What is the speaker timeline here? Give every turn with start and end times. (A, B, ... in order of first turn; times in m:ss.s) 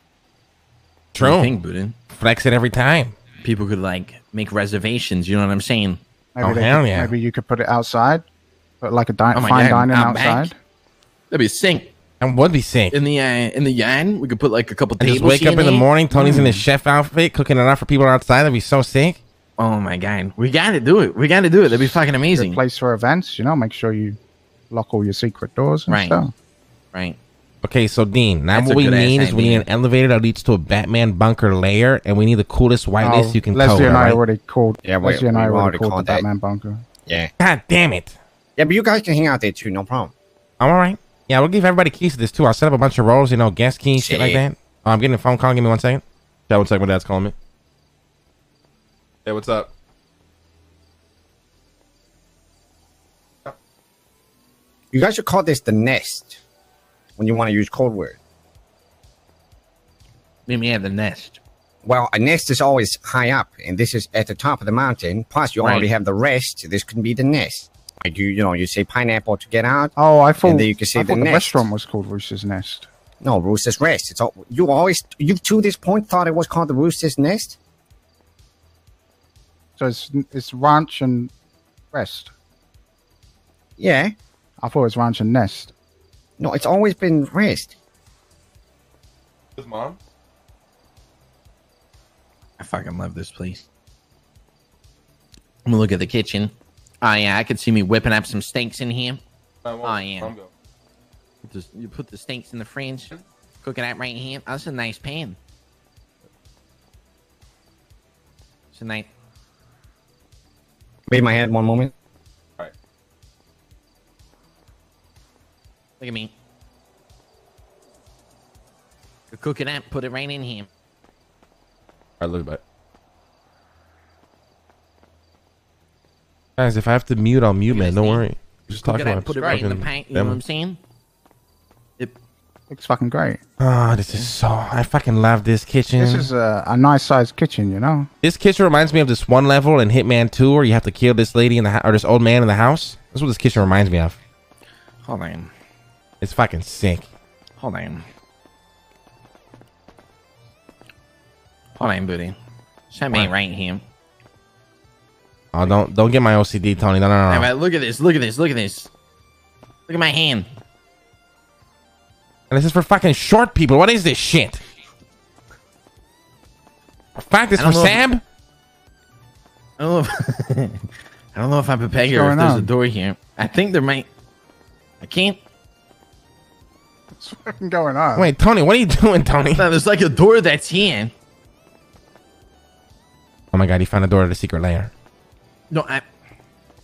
0:01.1-0:01.5 A
0:01.2-0:02.0 B
0:02.1-0:03.2 A
0:03.4-0:06.0 B
0:06.4-0:08.3 C
0:06.4-0:07.1 A
0:08.8-0:10.6 C
0:09.3-0:10.5 B
0:11.3-0:11.9 B
0:12.2-0:13.0 A
0:12.9-0:15.9 B
0:15.0-0:19.2 A
0:16.1-0:16.6 C
0:19.6-0:22.6 B
0:22.3-0:24.2 C
0:24.7-0:26.3 C
0:25.9-0:26.2 B
0:26.9-0:27.2 B
0:27.6-0:34.2 A
0:28.5-0:29.7 B
0:33.0-0:36.8 C
0:34.8-0:36.2 D
0:37.1-0:37.3 D
0:37.4-0:38.2 A
0:38.6-0:40.1 D
0:40.6-0:47.4 A
0:44.0-0:44.4 D
0:49.2-0:49.7 A
0:54.9-0:56.4 D
0:57.2-0:58.2 D
1:00.5-1:01.4 B
1:01.8-1:11.7 D
1:05.6-1:05.9 B
1:10.0-1:12.9 C
1:13.2-1:17.6 D
1:19.8-1:21.3 C
1:21.9-1:22.3 C
1:23.8-1:24.1 D
1:24.6-1:25.7 C
1:26.4-1:27.8 D
1:29.6-1:30.0 A
1:32.6-1:33.6 B
1:35.6-1:39.2 B
1:39.6-1:40.5 A
1:39.8-1:40.3 B
1:41.4-1:45.4 B
1:48.7-1:49.1 B
1:51.1-1:51.9 D
1:56.0-1:56.3 B
1:59.3-2:00.7 B
2:02.2-2:02.6 A
2:06.6-2:10.4 A
2:07.7-2:10.8 B
2:09.3-2:09.7 C
2:12.7-2:13.4 C
2:13.6-2:16.3 A
2:16.0-2:18.1 C
2:18.2-2:24.2 A
2:25.1-2:25.5 B
2:26.2-2:27.1 A
2:27.6-2:28.0 B
2:31.8-2:32.4 B
2:32.9-2:33.8 B
2:35.5-2:37.5 A
2:37.3-2:38.9 B
2:39.9-2:40.5 B
2:42.5-2:44.6 A
2:47.2-2:48.2 A
2:47.6-2:48.0 B
2:49.8-2:54.1 B
2:52.0-2:52.7 C
2:55.0-2:55.4 B
2:57.2-2:58.3 C
2:58.2-2:59.7 A
2:59.5-3:01.1 B
3:03.5-3:04.9 A
3:05.7-3:06.0 B